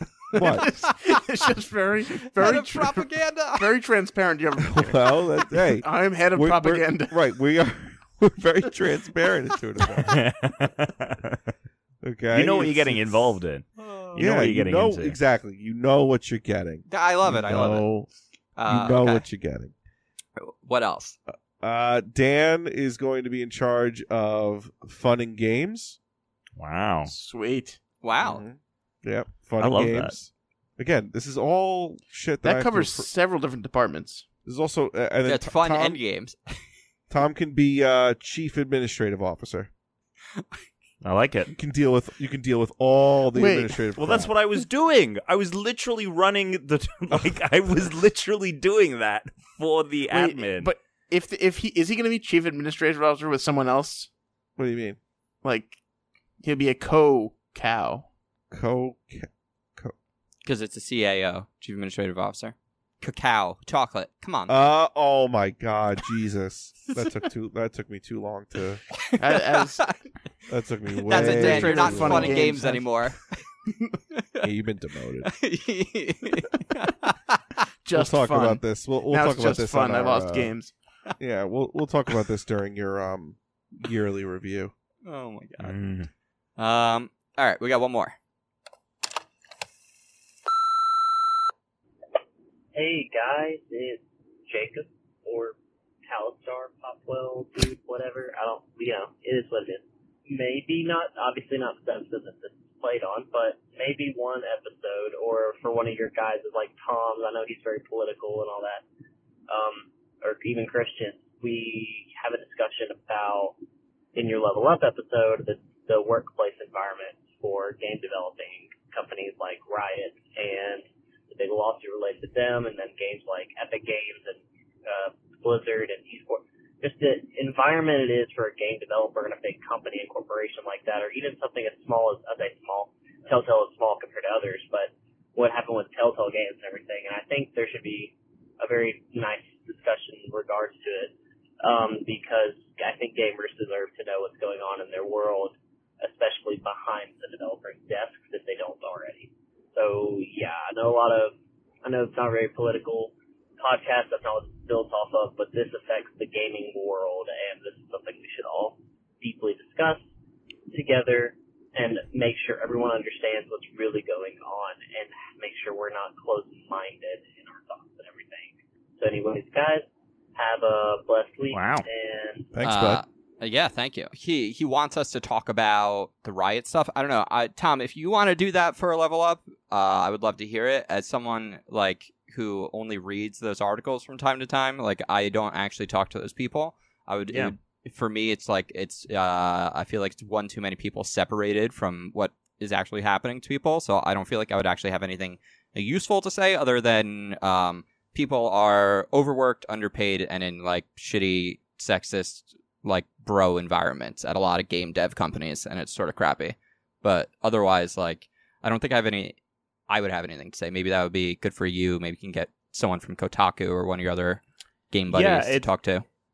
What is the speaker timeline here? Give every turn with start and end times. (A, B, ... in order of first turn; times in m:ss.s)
0:00.3-0:00.8 A
0:00.4-0:07.2 B
0:00.8-0:01.1 C
0:02.3-0:03.7 C
0:04.6-0:10.2 A
0:10.1-0:11.4 D
0:12.0-0:13.4 A
0:12.3-0:15.2 D
0:14.2-0:18.1 A
0:16.9-0:17.9 C
0:18.6-0:19.3 C
0:18.7-0:19.7 A
0:20.4-0:21.2 C
0:21.6-0:26.0 A
0:26.6-0:27.1 D
0:27.1-0:27.8 B
0:28.0-0:28.4 C
0:28.2-0:33.1 A
0:29.6-0:30.1 D
0:32.4-0:34.3 B
0:34.4-0:36.0 A
0:35.2-0:36.5 C
0:37.1-0:39.7 A
0:41.0-0:41.5 D
0:41.5-0:44.3 A
0:43.3-0:43.8 B
0:44.0-0:50.7 D
0:50.1-0:54.1 B
0:54.6-0:55.0 A
0:55.4-0:55.8 B
0:56.4-0:58.1 B
0:58.5-0:59.9 A
1:00.4-1:04.6 C
1:04.5-1:08.8 A
1:09.0-1:09.8 C
1:09.2-1:10.0 B
1:10.5-1:12.6 A
1:11.1-1:13.2 C
1:11.1-1:12.9 B
1:14.4-1:15.3 A
1:15.2-1:17.6 C
1:17.8-1:20.7 B
1:17.9-1:20.5 A
1:21.2-1:24.7 A
1:25.0-1:25.8 C
1:25.6-1:26.1 D
1:26.6-1:28.2 C
1:32.7-1:48.8 E
1:49.5-1:53.6 E
1:54.2-2:40.0 E
2:40.7-2:52.5 E
2:51.5-2:51.9 D
2:52.5-2:53.0 A
2:52.6-3:29.4 C
3:29.9-3:36.0 C
3:35.1-3:35.7 D